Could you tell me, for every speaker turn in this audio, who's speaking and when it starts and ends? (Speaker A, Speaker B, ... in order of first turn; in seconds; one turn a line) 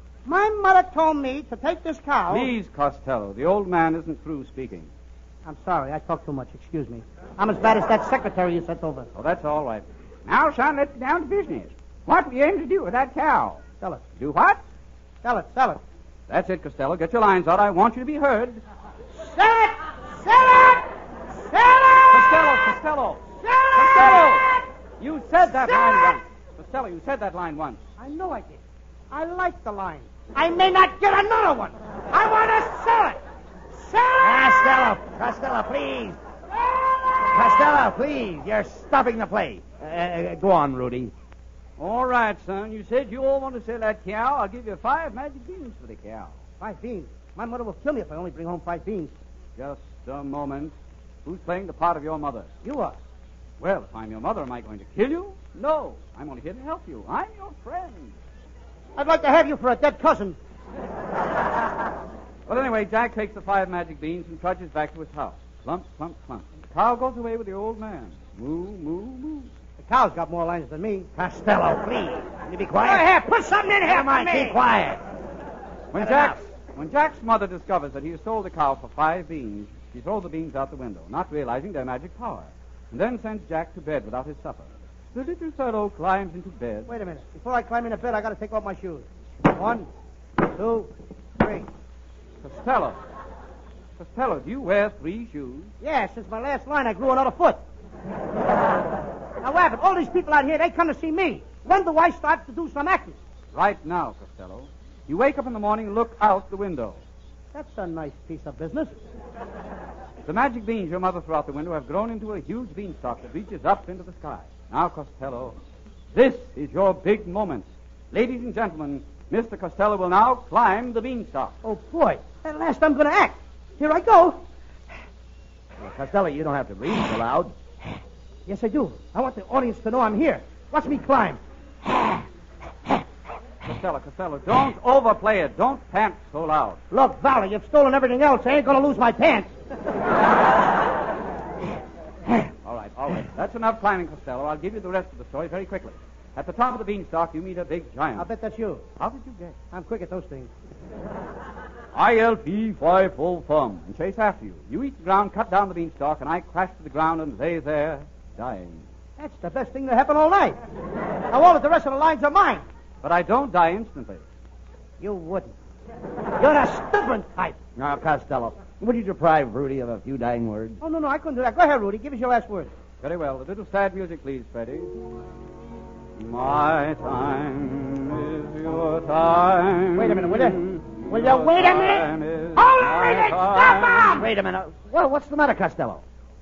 Speaker A: 0.2-2.5
Speaker B: 2.3-4.9
Speaker A: 5.5-9.1
Speaker B: 9.1-13.6
Speaker B: 14.2-14.6
Speaker A: 15.2-15.8
Speaker B: 16.3-18.6
Speaker A: 19.1-22.5
Speaker B: 22.1-27.8
Speaker A: 23.4-24.5
Speaker A: 25.4-26.2
Speaker A: 28.0-33.2
Speaker A: 33.7-34.9
Speaker C: 34.2-36.2
Speaker C: 37.2-41.1
Speaker B: 41.8-46.3
Speaker A: 46.6-49.1
Speaker B: 49.5-50.7
Speaker B: 51.2-52.5
Speaker A: 52.6-53.0
Speaker B: 53.6-58.1
Speaker A: 59.0-60.4
Speaker B: 62.5-69.5
Speaker A: 69.8-71.1
Speaker C: 71.1-73.0
Speaker A: 72.8-74.6
Speaker C: 73.8-75.0
Speaker B: 75.9-86.9
Speaker C: 75.9-76.4
Speaker A: 86.9-89.9
Speaker A: 90.4-91.7
Speaker B: 92.4-93.0
Speaker B: 94.0-95.7
Speaker A: 95.8-97.6
Speaker A: 99.4-103.2
Speaker B: 103.5-107.0
Speaker A: 107.5-108.9
Speaker B: 110.2-115.5
Speaker B: 116.1-121.5
Speaker A: 121.6-124.4
Speaker C: 125.8-127.5
Speaker A: 128.5-131.4
Speaker B: 133.6-136.8
Speaker A: 136.9-139.5
Speaker B: 142.6-148.3
Speaker A: 148.2-148.8
Speaker B: 149.0-149.6
Speaker A: 149.7-150.5
Speaker B: 151.9-158.8
Speaker A: 159.2-160.6
Speaker A: 161.3-162.6
Speaker B: 163.0-164.2
Speaker A: 165.0-165.5
Speaker A: 166.4-167.6
Speaker C: 167.8-170.8
Speaker A: 170.8-172.7
Speaker B: 173.0-174.9
Speaker B: 176.2-184.2
Speaker A: 179.9-184.2
Speaker C: 184.1-186.0